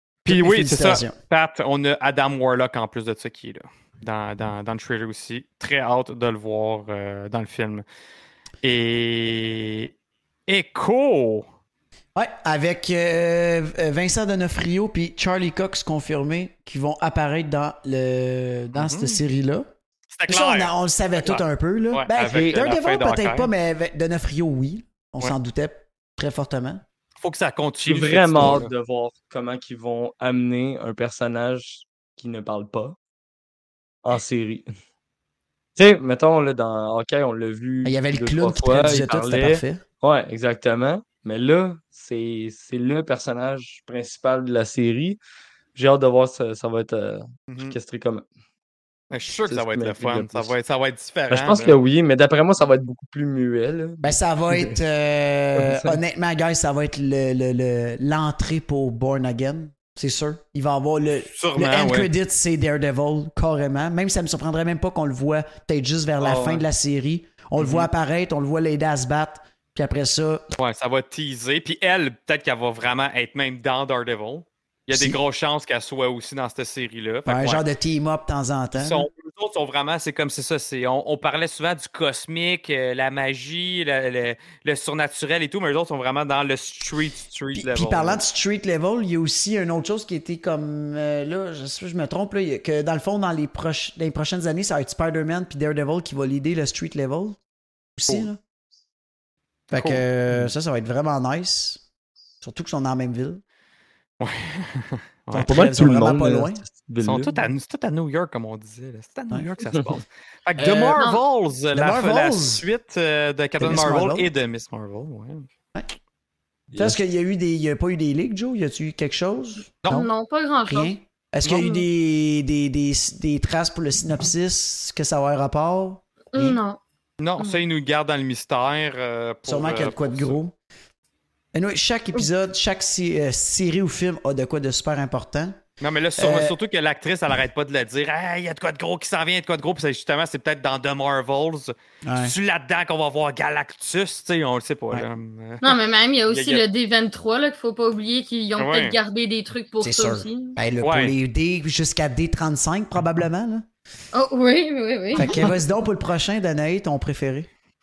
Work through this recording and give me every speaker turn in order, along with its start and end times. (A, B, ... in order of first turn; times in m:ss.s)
0:00.2-0:07.8 A
0:00.3-0:01.2 B
0:08.6-0:09.9 A
0:10.5-0:11.5 A
0:12.2-0:19.7 B
0:18.7-0:19.2 A
0:20.1-0:23.5 A
0:20.3-0:26.8 B
0:27.2-0:28.7 A
0:27.8-0:33.0 C
0:34.0-0:34.7 C
0:35.8-0:45.2 C
0:37.8-0:39.8 B
0:45.8-0:48.2 C
0:47.5-0:47.8 A
0:49.1-0:51.8 A
0:49.5-0:50.5 C
0:51.3-0:54.8 C
0:54.0-1:10.5 B
0:55.6-0:56.0 C
1:01.3-1:02.1 A
1:06.2-1:06.6 A
1:07.6-1:07.9 A
1:10.6-1:17.6 A
1:14.9-1:15.2 B
1:17.3-1:19.1 B
1:18.8-1:28.2 A
1:27.6-1:37.4 B
1:38.0-1:38.4 B
1:39.7-1:41.8 B
1:39.7-1:40.0 A
1:42.4-1:43.4 B
1:44.2-1:45.5 A
1:45.3-1:46.6 B
1:45.4-1:47.4 C
1:47.0-1:55.5 A
1:50.6-1:51.0 B
1:51.7-1:52.6 B
1:53.6-1:54.3 B
1:56.7-1:57.0 C
1:56.8-2:00.1 B
1:59.9-2:00.9 D
2:00.7-2:06.6 B
2:01.4-2:01.8 D
2:06.3-2:06.8 D
2:07.2-2:10.4 A
2:09.4-2:10.5 B
2:11.5-2:15.6 B
2:15.8-2:25.8 A
2:16.2-2:16.6 B
2:22.0-2:22.4 B
2:25.6-2:30.6 D
2:26.3-2:26.6 A
2:28.6-2:29.0 A
2:29.8-2:33.7 B
2:30.8-2:31.1 A
2:34.1-2:35.4 D
2:35.2-2:37.5 B